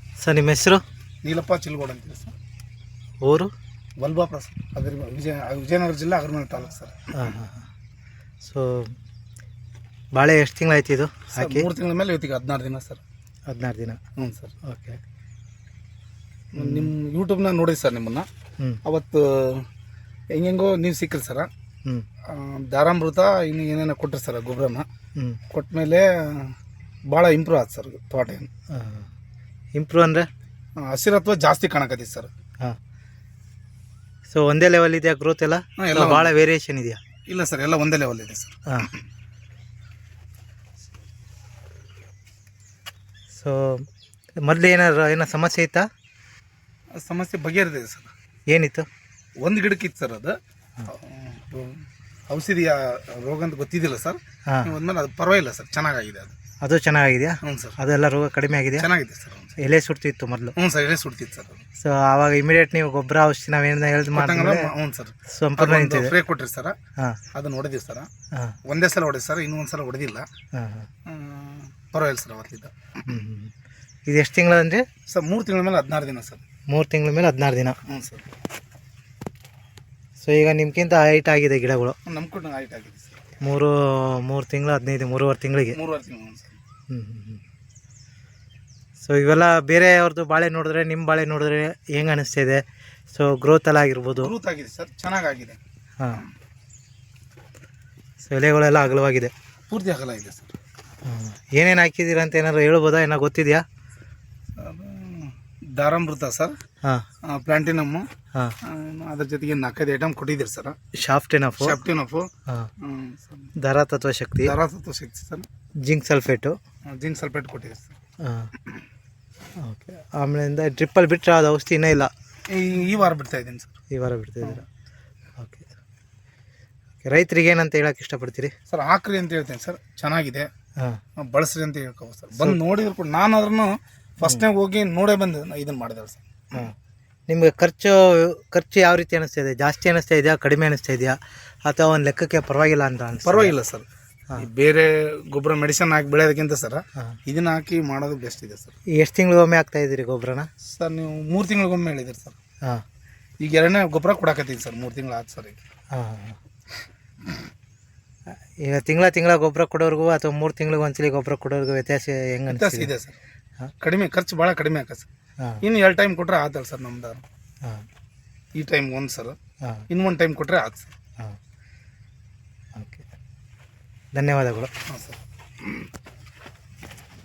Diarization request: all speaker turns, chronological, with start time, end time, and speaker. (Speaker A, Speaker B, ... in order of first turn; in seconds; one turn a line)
Speaker A: 0.2-0.8
Speaker B: 1.2-2.3
Speaker A: 3.2-3.5
Speaker B: 4.0-7.1
Speaker A: 7.1-7.7
Speaker A: 8.4-8.9
Speaker A: 10.2-11.7
Speaker B: 11.3-13.0
Speaker A: 13.5-14.0
Speaker B: 14.2-14.6
Speaker A: 14.6-15.0
Speaker B: 16.5-18.3
Speaker A: 16.6-16.9
Speaker B: 18.8-19.7
Speaker B: 20.3-21.5
Speaker B: 22.3-24.9
Speaker B: 25.5-26.5
Speaker B: 27.1-28.5
Speaker A: 28.7-29.1
Speaker A: 29.8-30.3
Speaker B: 30.8-32.3
Speaker A: 34.3-37.0
Speaker B: 35.8-36.3
Speaker B: 37.3-38.6
Speaker A: 43.3-43.9
Speaker A: 44.4-45.9
Speaker B: 47.0-48.1
Speaker A: 48.5-48.9
Speaker B: 49.4-56.4
Speaker A: 56.6-58.9
Speaker B: 57.4-57.8
Speaker B: 58.8-59.6
Speaker A: 59.6-60.5
Speaker B: 60.5-61.6
Speaker A: 61.8-64.7
Speaker B: 64.0-66.8
Speaker A: 65.3-66.1
Speaker B: 67.3-68.1
Speaker B: 68.7-70.3
Speaker A: 70.5-70.9
Speaker B: 71.0-72.7
Speaker A: 73.1-73.5
Speaker A: 74.1-74.8
Speaker B: 75.1-76.4
Speaker A: 76.7-77.8
Speaker B: 77.8-78.3
Speaker A: 80.2-82.0
Speaker B: 82.0-83.2
Speaker A: 83.4-85.8
Speaker B: 85.7-86.5
Speaker A: 86.9-87.4
Speaker A: 89.0-94.3
Speaker B: 94.2-95.6
Speaker A: 98.2-99.3
Speaker B: 99.7-100.5
Speaker A: 101.0-103.6
Speaker B: 104.6-106.5
Speaker B: 107.2-108.0
Speaker B: 108.6-110.8
Speaker A: 111.0-111.8
Speaker B: 111.6-113.5
Speaker A: 113.6-114.5
Speaker B: 114.4-115.5
Speaker A: 115.8-116.6
Speaker B: 116.9-117.9
Speaker A: 118.2-118.5
Speaker A: 119.6-122.1
Speaker B: 122.5-123.7
Speaker A: 123.9-124.6
Speaker A: 125.4-125.7
Speaker A: 127.0-128.5
Speaker B: 128.7-130.5
Speaker B: 131.2-136.2
Speaker A: 137.3-143.5
Speaker B: 143.2-148.8
Speaker A: 149.0-150.5
Speaker B: 150.6-152.4
Speaker B: 153.4-155.6
Speaker A: 155.9-156.4
Speaker A: 158.6-162.9
Speaker B: 162.5-163.1
Speaker B: 163.8-165.1
Speaker B: 165.6-167.2
Speaker B: 168.6-169.4
Speaker B: 169.9-170.9
Speaker A: 172.7-173.1
Speaker A: 174.1-174.7
Speaker B: 174.8-175.7